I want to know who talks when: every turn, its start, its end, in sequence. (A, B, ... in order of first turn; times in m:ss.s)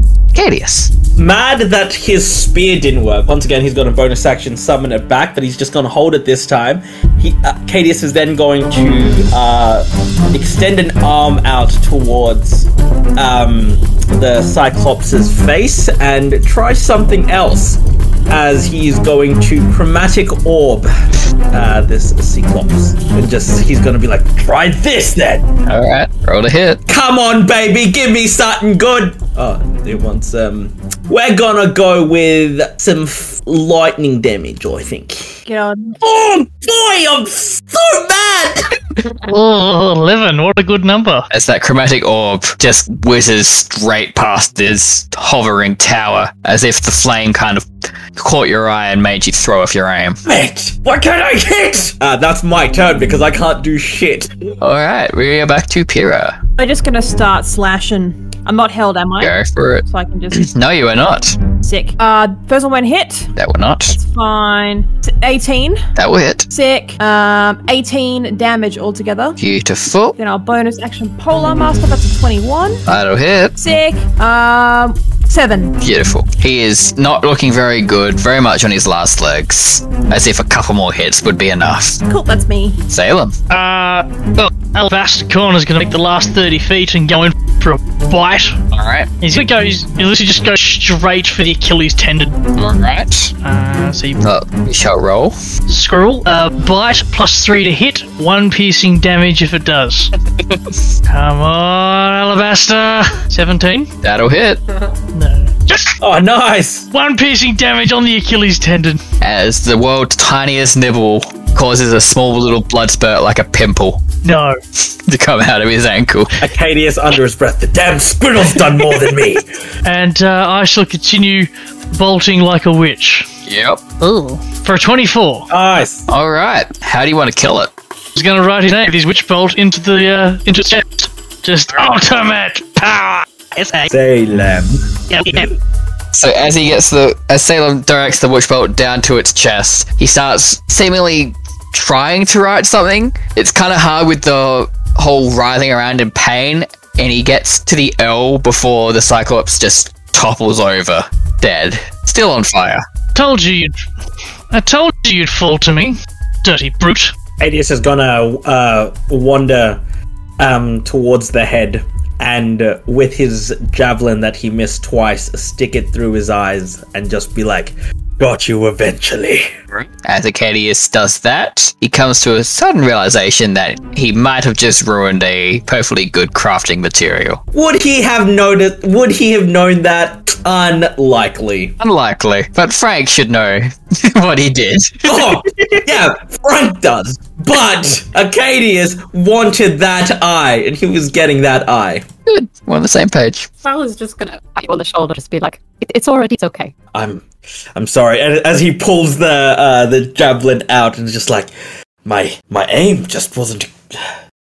0:00.3-0:00.9 A
0:01.2-0:20.9 B
0:21.5-0:25.5 B
0:25.7-0:26.8 A
0:26.9-0:35.4 B
0:35.5-0:36.0 C
0:36.0-0:38.8 B
0:39.2-0:41.3 D
0:41.3-0:50.2 A
0:50.2-0:54.4 B
0:54.6-0:56.4 A
0:56.6-1:00.5 C
0:59.2-1:01.4 A
1:01.6-1:03.3 C
1:03.4-1:04.0 A
1:03.9-1:05.8 C
1:06.0-1:06.5 A
1:06.5-1:09.4 C
1:09.4-1:10.2 A
1:10.2-1:12.8 C
1:12.9-1:13.6 A
1:13.6-1:15.8 C
1:15.8-1:22.0 A
1:22.1-1:22.8 C
1:22.9-1:23.4 A
1:23.5-1:28.6 D
1:28.7-1:29.1 A
1:29.2-1:32.4 D
1:32.6-1:33.3 A
1:33.4-1:34.2 D
1:34.2-1:35.4 A
1:35.7-1:40.1 D
1:40.5-1:40.8 A
1:41.1-1:43.9 D
1:44.0-1:44.6 A
1:45.1-1:46.0 D
1:46.0-1:46.9 B
1:46.9-1:49.0 D
1:49.2-1:54.0 A
1:54.2-1:54.6 D
1:54.8-1:56.4 A
1:56.4-1:59.5 B
1:59.8-2:03.3 D
2:03.5-2:03.8 A
2:04.0-2:05.5 D
2:05.5-2:06.1 B
2:06.1-2:07.7 A
2:08.2-2:13.9 D
2:13.9-2:15.4 B
2:15.1-2:15.5 D
2:16.1-2:32.8 A
2:33.2-2:33.8 D
2:34.5-2:37.1 D
2:37.4-2:39.8 B
2:40.4-2:49.5 B
2:49.7-2:57.4 A
2:57.5-3:01.8 B
3:01.8-3:05.4 A
3:05.0-3:12.1 B
3:12.3-3:13.5 A
3:13.6-3:16.7 E
3:16.9-3:21.5 B
3:22.0-3:24.1 B